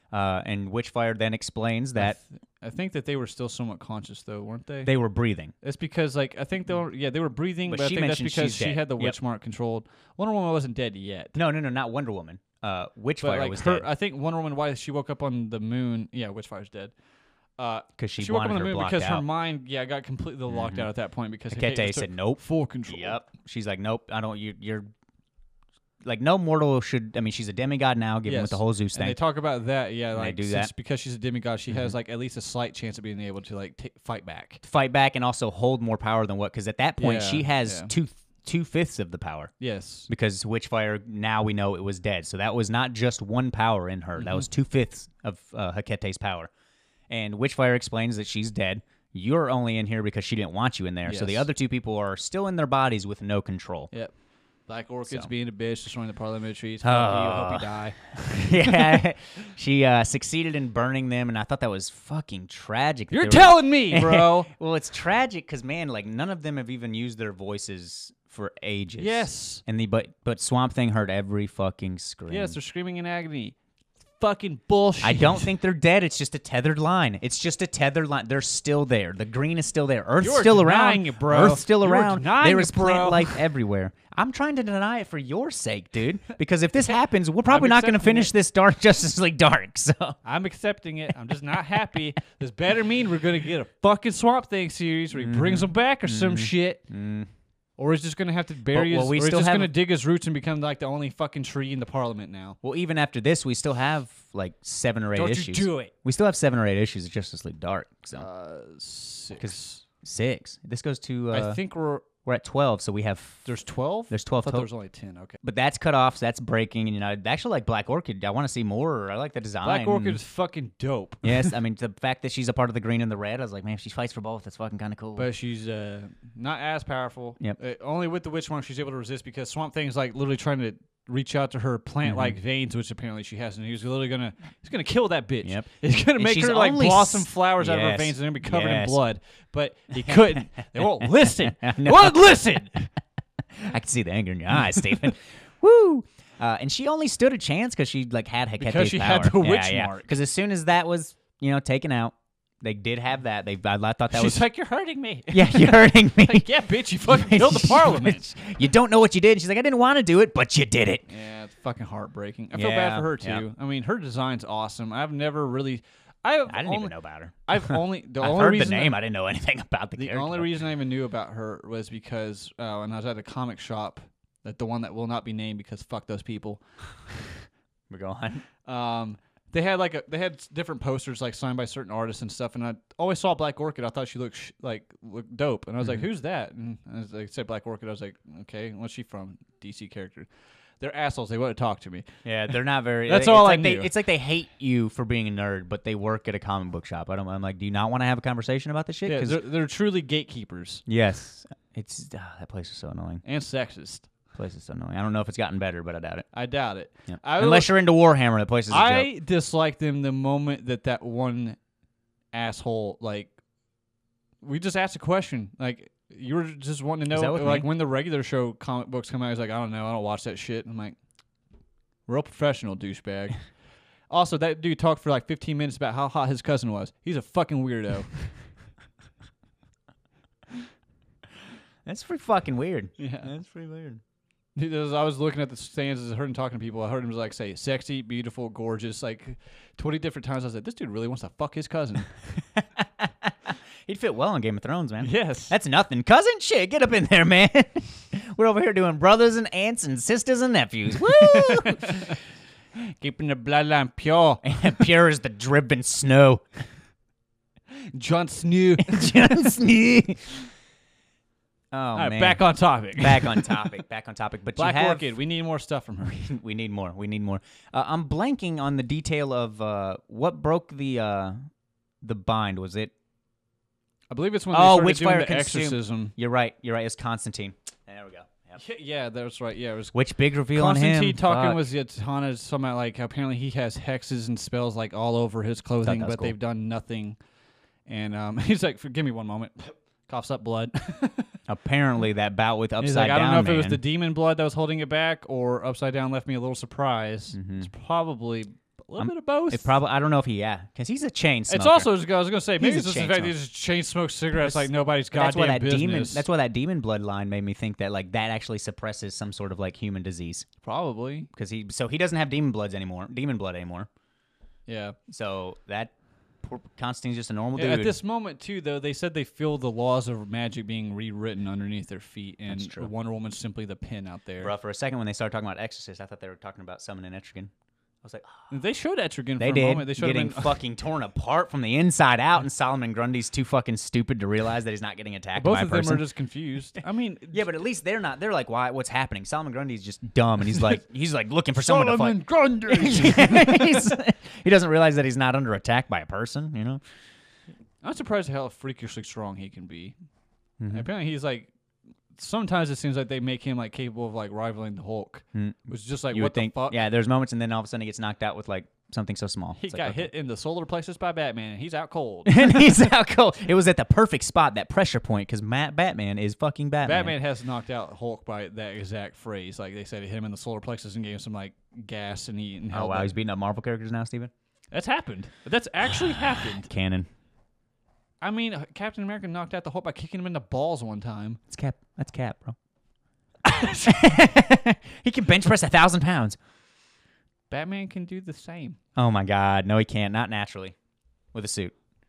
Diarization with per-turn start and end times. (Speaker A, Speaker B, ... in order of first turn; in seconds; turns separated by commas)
Speaker A: 0.1-2.2, Speaker B: 2.0-4.9, Speaker A: 4.8-5.5, Speaker B: 5.6-11.3, Speaker A: 7.7-9.2, Speaker A: 11.3-13.9, Speaker B: 13.2-16.9, Speaker B: 17.6-23.2, Speaker A: 18.0-19.2, Speaker A: 20.5-20.9, Speaker A: 21.5-24.9, Speaker A: 26.0-29.2, Speaker B: 28.3-34.6, Speaker A: 30.1-30.7, Speaker A: 31.7-31.9, Speaker A: 34.6-39.5, Speaker B: 37.0-37.9, Speaker B: 39.6-40.1, Speaker A: 40.1-46.5, Speaker B: 44.2-44.5, Speaker A: 47.1-53.9, Speaker B: 51.1-51.5, Speaker B: 54.7-59.0, Speaker A: 56.8-72.6, Speaker B: 63.1-64.5, Speaker B: 69.0-69.6, Speaker B: 72.3-73.5, Speaker B: 74.2-75.5, Speaker A: 75.0-90.2, Speaker B: 80.2-83.4, Speaker B: 87.5-88.3, Speaker B: 90.2-96.8, Speaker A: 95.2-97.3, Speaker B: 97.8-102.6, Speaker A: 98.7-99.7, Speaker A: 102.6-108.3, Speaker B: 105.2-105.9, Speaker B: 108.2-109.8, Speaker A: 109.4-111.6, Speaker B: 111.3-112.1, Speaker A: 112.2-113.5, Speaker B: 113.5-115.4, Speaker A: 114.1-114.7, Speaker A: 115.4-120.2, Speaker B: 119.6-121.5, Speaker A: 121.2-125.3, Speaker B: 125.2-142.8, Speaker A: 132.1-132.4, Speaker A: 135.4-139.0, Speaker A: 140.0-142.4, Speaker A: 143.6-154.5, Speaker B: 148.6-150.1, Speaker B: 154.1-158.3, Speaker A: 155.3-156.5, Speaker A: 157.1-161.0, Speaker B: 161.1-166.9, Speaker A: 162.5-163.4, Speaker A: 166.5-170.5, Speaker B: 167.5-169.0, Speaker B: 170.0-177.3, Speaker A: 177.9-178.5, Speaker B: 178.6-190.3, Speaker B: 190.8-192.1, Speaker A: 192.2-199.4, Speaker B: 193.1-193.9, Speaker B: 199.1-200.8, Speaker A: 200.9-203.2, Speaker B: 203.2-204.1, Speaker A: 204.3-206.3, Speaker B: 206.3-207.7, Speaker A: 207.1-209.1, Speaker B: 208.7-211.6, Speaker B: 212.3-213.3, Speaker B: 214.4-221.0, Speaker A: 217.1-217.7, Speaker B: 222.1-223.5, Speaker B: 224.1-228.3, Speaker A: 231.9-234.0, Speaker B: 233.0-233.3, Speaker B: 234.6-242.4, Speaker A: 243.0-243.3, Speaker A: 243.8-252.1, Speaker B: 245.0-245.5, Speaker B: 251.1-252.2, Speaker B: 252.9-254.5, Speaker A: 254.4-256.4, Speaker B: 257.9-259.2, Speaker A: 258.8-260.4, Speaker A: 261.7-262.4, Speaker B: 261.9-263.7, Speaker A: 263.0-265.1, Speaker B: 264.6-266.2, Speaker A: 266.0-271.4, Speaker A: 272.0-272.9, Speaker B: 274.1-276.1, Speaker A: 274.5-278.6, Speaker B: 278.6-279.9, Speaker A: 279.9-281.6, Speaker B: 280.5-287.2, Speaker A: 285.8-286.3, Speaker B: 287.9-291.3, Speaker A: 291.5-293.8, Speaker B: 292.8-299.7, Speaker A: 297.3-297.7, Speaker A: 299.0-301.9, Speaker B: 301.5-306.2, Speaker A: 302.6-303.3, Speaker A: 304.4-310.5, Speaker B: 310.6-311.3, Speaker A: 311.3-313.9, Speaker B: 314.7-315.0, Speaker A: 315.1-317.9, Speaker B: 317.6-324.5, Speaker A: 322.5-322.9, Speaker A: 324.4-327.5, Speaker A: 328.0-328.3, Speaker B: 328.5-330.6, Speaker A: 329.4-336.0, Speaker B: 335.4-337.5, Speaker A: 337.3-346.8, Speaker B: 341.6-343.9, Speaker B: 347.8-349.9, Speaker A: 350.6-350.9, Speaker B: 350.7-351.5, Speaker B: 352.2-356.8, Speaker A: 355.4-360.1, Speaker B: 359.6-362.6, Speaker A: 362.3-367.1, Speaker B: 366.8-373.1, Speaker A: 372.7-374.3, Speaker B: 374.7-376.7, Speaker A: 376.6-377.1, Speaker B: 378.2-381.4, Speaker A: 381.5-382.6, Speaker B: 383.5-383.9, Speaker A: 383.7-386.4, Speaker B: 387.5-388.8, Speaker A: 389.0-390.8, Speaker A: 391.3-391.8